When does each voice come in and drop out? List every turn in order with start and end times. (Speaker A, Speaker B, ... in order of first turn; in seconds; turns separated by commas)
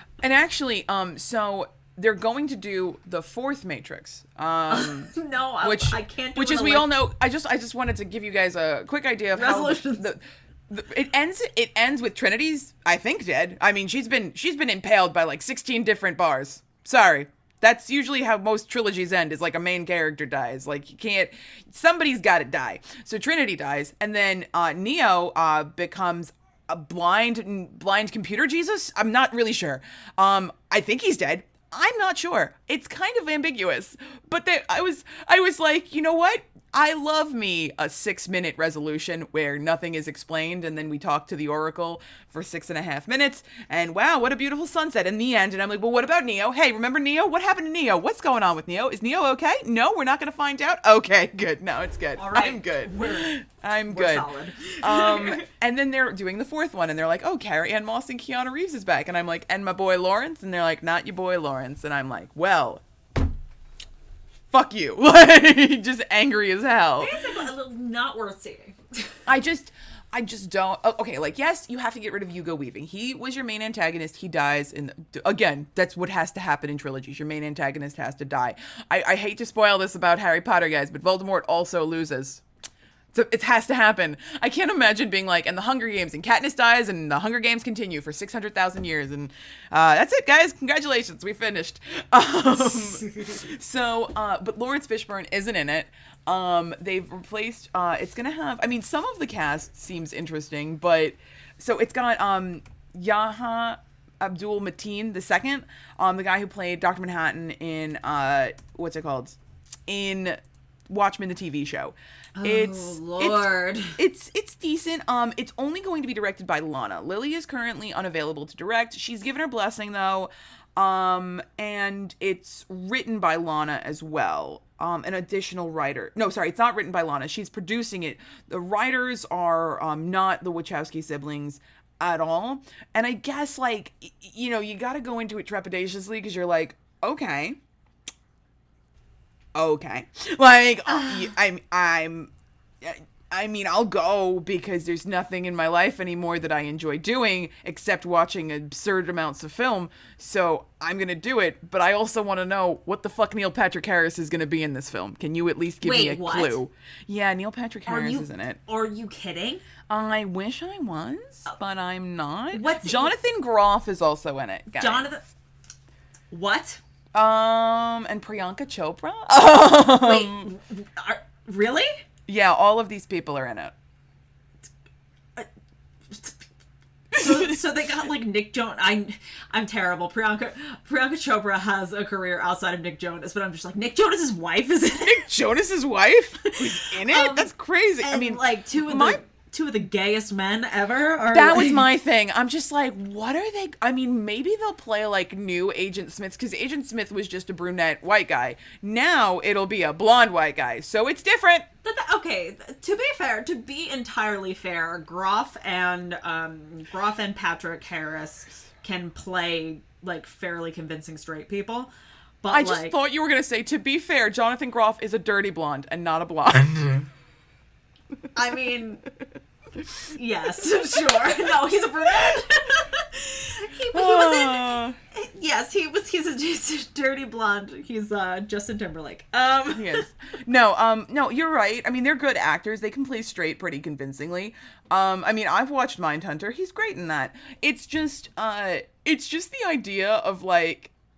Speaker A: 0.2-54.3, Speaker B: 4.7-6.9, Speaker B: 9.3-10.1, Speaker B: 52.2-53.3, Speaker B: 53.9-55.4, Speaker A: 54.8-62.8, Speaker A: 64.5-67.2, Speaker B: 67.0-69.2, Speaker A: 69.3-82.4, Speaker A: 83.1-110.4, Speaker A: 110.9-137.6, Speaker B: 112.4-114.0, Speaker A: 139.6-158.6, Speaker B: 140.9-141.3, Speaker B: 155.8-156.6, Speaker B: 157.9-159.6, Speaker A: 159.9-165.1, Speaker B: 162.5-163.1, Speaker B: 164.7-165.2, Speaker B: 166.3-166.8, Speaker A: 167.1-170.5, Speaker B: 169.9-172.0, Speaker A: 172.3-173.7, Speaker B: 176.1-176.4, Speaker A: 177.1-177.5, Speaker B: 177.2-185.3, Speaker A: 184.9-189.2, Speaker B: 186.4-187.5, Speaker B: 188.0-191.9, Speaker A: 191.3-201.7, Speaker B: 201.8-211.9, Speaker B: 212.4-213.0, Speaker A: 212.5-217.1, Speaker B: 218.3-219.0, Speaker B: 220.1-230.1, Speaker A: 223.9-225.0, Speaker A: 229.7-240.9